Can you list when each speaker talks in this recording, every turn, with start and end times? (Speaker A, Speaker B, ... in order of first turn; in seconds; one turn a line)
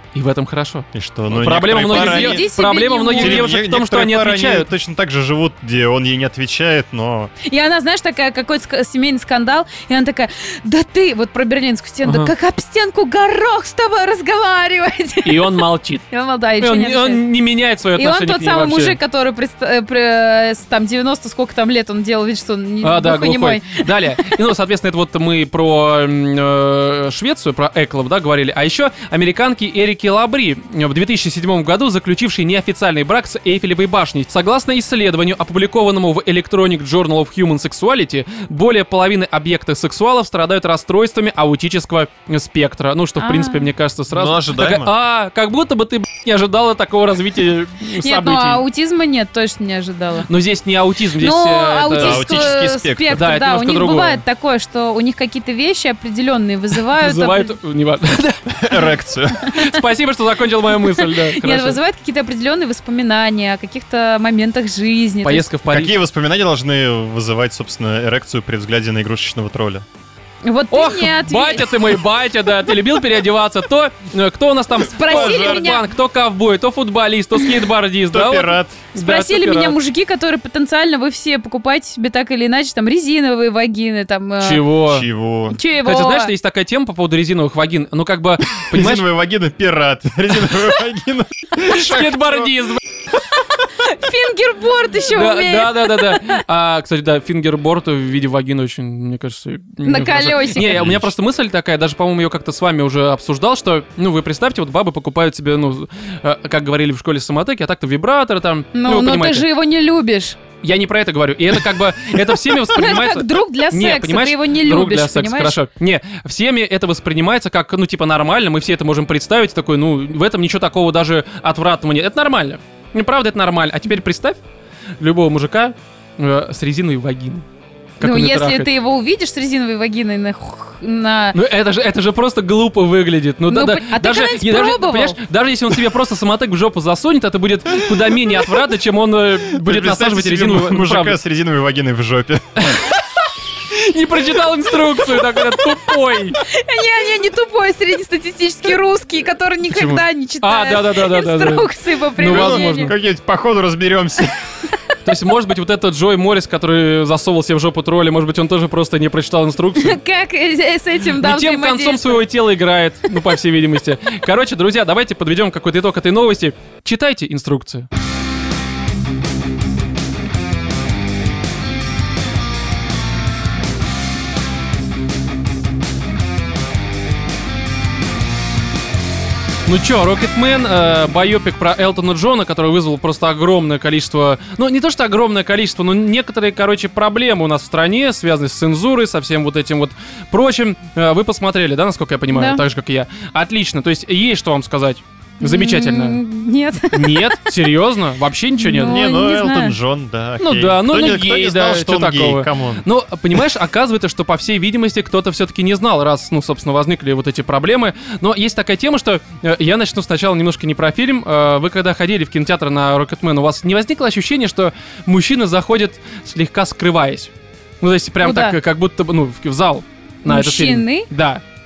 Speaker A: 0.1-4.7
Speaker B: 0.9-2.5
Speaker C: 1.8-3.5
Speaker B: 3.1-7.3
Speaker C: 7.4-17.2
Speaker A: 12.0-12.3
Speaker A: 15.2-16.0
Speaker A: 16.6-19.0
Speaker C: 18.0-24.4
Speaker A: 22.8-48.6
Speaker C: 43.2-43.7
Speaker B: 44.1-44.9
Speaker C: 48.0-50.3
Speaker A: 50.3-52.6
Speaker C: 51.2-57.5
Speaker B: 52.0-53.2
Speaker A: 53.1-54.2
Speaker A: 57.0-58.8
Speaker B: 58.5-59.5
Speaker A: 59.4-61.8
Speaker C: 60.8-65.5
Speaker A: 65.2-65.9
Speaker B: 65.7-69.8
Speaker C: 70.4-72.0
Speaker A: 70.7-79.8
Speaker C: 74.8-75.8
Speaker B: 75.1-75.8
Speaker B: 78.1-78.8
Speaker C: 78.9-84.7
Speaker A: 84.4-85.1
Speaker B: 84.9-85.6
Speaker C: 85.5-86.3
Speaker A: 85.8-89.0
Speaker B: 88.7-92.5
Speaker A: 91.6-92.8
Speaker C: 93.8-96.4
Speaker A: 95.1-109.5
Speaker C: 99.8-100.9
Speaker B: 100.7-101.1
Speaker C: 108.7-110.4
Speaker A: 110.6-124.4
Speaker C: 112.5-115.6
Speaker A: 125.0-127.5
Speaker A: 128.0-128.7
Speaker C: 128.0-131.4
Speaker A: 131.3-141.2
Speaker C: 133.5-135.2
Speaker B: 139.5-142.7
Speaker A: 142.6-143.0
Speaker A: 143.7-146.4
Speaker C: 145.4-145.8
Speaker C: 146.4-152.9
Speaker A: 149.7-152.9
Speaker B: 152.2-154.5
Speaker A: 155.0-160.0
Speaker C: 159.8-162.2
Speaker A: 161.2-167.9
Speaker A: 179.7-196.2
Speaker C: 192.3-192.6
Speaker C: 195.4-197.3
Speaker A: 196.9-199.0
Speaker C: 198.6-199.8
Speaker B: 198.8-202.8
Speaker A: 200.4-221.4
Speaker C: 218.2-218.6
Speaker C: 220.3-221.1